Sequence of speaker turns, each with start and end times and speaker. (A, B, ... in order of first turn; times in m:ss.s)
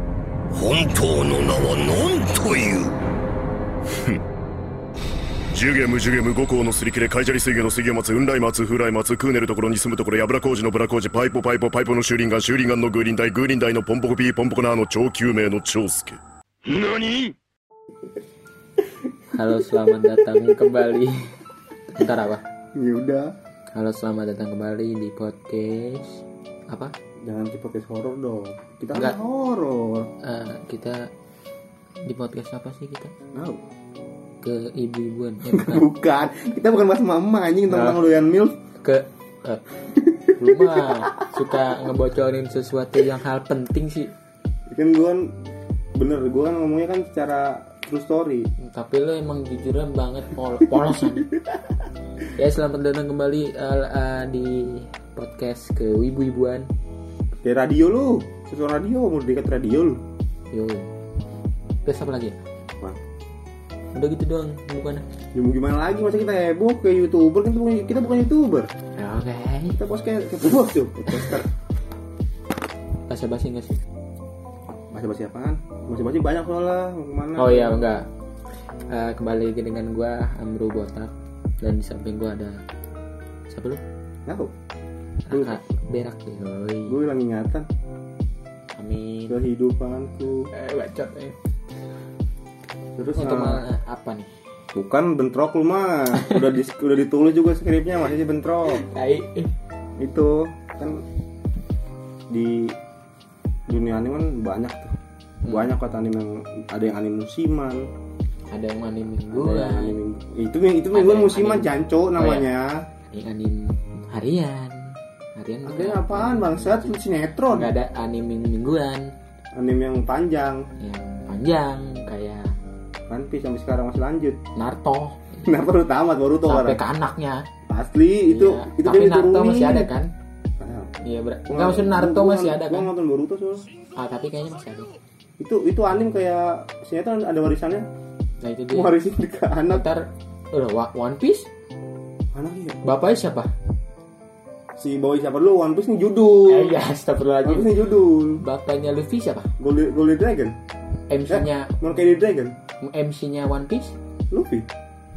0:00.5-0:03.0 A
0:05.5-0:16.2 B
0:16.6-0:17.4 A
0:19.3-0:21.4 C
0:21.9-0:22.4 C
0:22.8-0:23.4 D
0:23.7-0:26.9 C
0:27.2-0:30.1 D
0:30.2-0:31.1 C
0:32.0-0:33.2 C
0:33.3-0:33.6 D
0:34.4-0:35.8 C
0:35.4-0:38.6 D
0:37.7-0:38.0 C
0:38.8-0:39.6 C
0:40.3-0:41.2 D
0:40.4-0:44.1 C
0:44.7-0:45.3 D
0:46.0-0:48.5 D
0:48.6-0:51.3 C
0:51.0-0:51.5 D
0:52.4-0:56.7 C
0:57.4-1:00.0 D
1:00.5-1:00.9 C
1:01.8-1:02.4 C
1:03.9-1:05.0 C
1:05.3-1:08.7 D
1:09.0-1:09.8 C
1:09.8-1:11.5 D
1:13.1-1:13.8 C
1:14.9-1:17.8 D
1:17.4-1:18.1 C
1:18.9-1:22.6 C
1:23.5-1:23.8 C
1:24.3-1:24.5 D
1:25.3-1:27.0 C
1:25.3-1:25.6 D
1:26.9-1:27.7 D
1:28.8-1:29.4 C
1:29.3-1:30.5 D
1:30.5-1:31.4 C
1:33.0-1:33.6 D
1:33.2-1:34.3 C
1:34.7-1:38.8 D
1:38.7-1:39.5 C
1:40.0-1:41.0 D
1:42.3-1:42.8 D
1:43.7-1:47.9 D
1:48.5-1:50.0 C
1:49.3-1:52.9 D
1:50.9-1:52.5 C
1:53.1-1:56.9 C
1:55.6-1:57.7 D
1:57.5-1:59.1 C
1:59.5-2:00.7 D
2:00.8-2:02.6 C
2:03.1-2:04.4 D
2:04.6-2:05.5 C
2:05.4-2:06.8 D
2:06.5-2:07.5 C
2:07.7-2:09.9 D
2:08.3-2:10.1 C
2:10.6-2:10.9 D
2:11.0-2:12.9 C
2:11.5-2:13.7 D
2:14.0-2:14.9 C
2:15.4-2:17.9 D
2:18.4-2:18.9 C
2:18.7-2:19.8 D
2:19.7-2:21.5 C
2:22.3-2:22.8 D
2:22.8-2:23.5 C
2:24.8-2:26.8 D
2:26.5-2:27.9 C
2:27.4-2:28.4 D
2:28.4-2:29.5 C
2:29.6-2:30.6 D
2:31.1-2:31.8 C
2:31.3-2:32.6 D
2:32.8-2:34.0 C
2:34.3-2:34.7 D